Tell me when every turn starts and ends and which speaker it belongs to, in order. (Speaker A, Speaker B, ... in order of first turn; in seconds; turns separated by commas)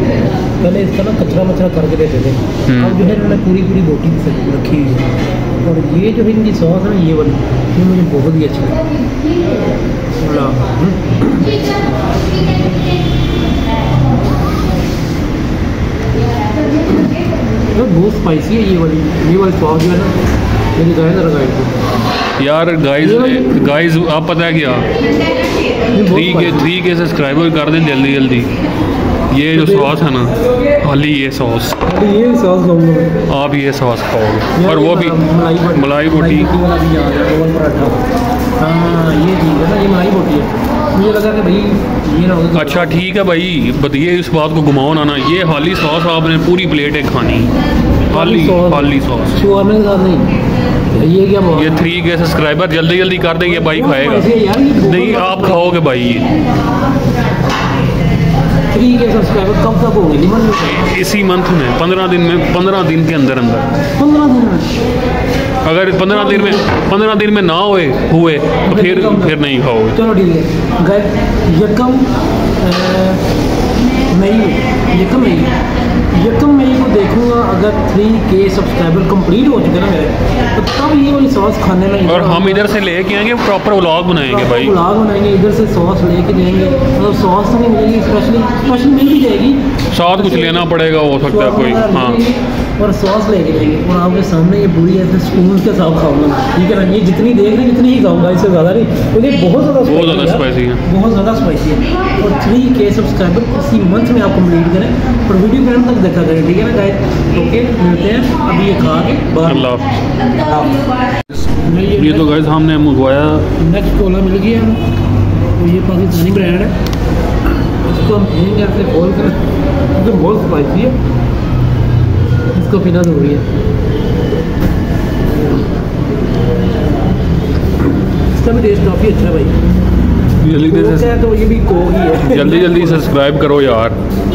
Speaker A: 0.6-8.9, Speaker B: 2.7-3.0, Speaker A: 10.2-11.5, Speaker A: 17.7-20.1, Speaker A: 20.8-21.8, Speaker B: 22.4-24.9, Speaker A: 23.0-23.7, Speaker A: 25.9-26.6, Speaker B: 26.1-28.5, Speaker B: 29.3-31.8, Speaker A: 29.5-30.0, Speaker A: 31.9-33.1, Speaker B: 33.3-36.5, Speaker A: 34.5-38.0, Speaker A: 38.6-43.0, Speaker B: 42.5-47.5, Speaker B: 48.1-49.4, Speaker A: 48.1-50.3, Speaker A: 50.9-51.8, Speaker B: 51.5-56.3, Speaker A: 53.7-55.7, Speaker A: 58.7-60.9, Speaker B: 60.7-63.7, Speaker A: 64.0-64.7, Speaker B: 65.6-70.0, Speaker A: 66.1-66.7, Speaker A: 68.7-69.4, Speaker A: 69.9-72.1, Speaker A: 72.6-73.2, Speaker A: 74.1-75.6, Speaker A: 76.1-82.7, Speaker B: 82.0-84.8, Speaker A: 84.3-89.6, Speaker B: 89.9-92.2, Speaker A: 90.1-90.7, Speaker A: 91.3-110.8, Speaker B: 99.8-100.8, Speaker B: 109.4-110.0, Speaker A: 111.6-112.4, Speaker B: 111.9-113.5, Speaker A: 113.6-114.8, Speaker A: 115.5-116.7, Speaker A: 117.8-119.4, Speaker A: 120.0-121.0, Speaker A: 122.5-123.5, Speaker A: 128.3-129.6, Speaker B: 130.4-131.2, Speaker A: 130.7-133.1, Speaker B: 132.2-134.0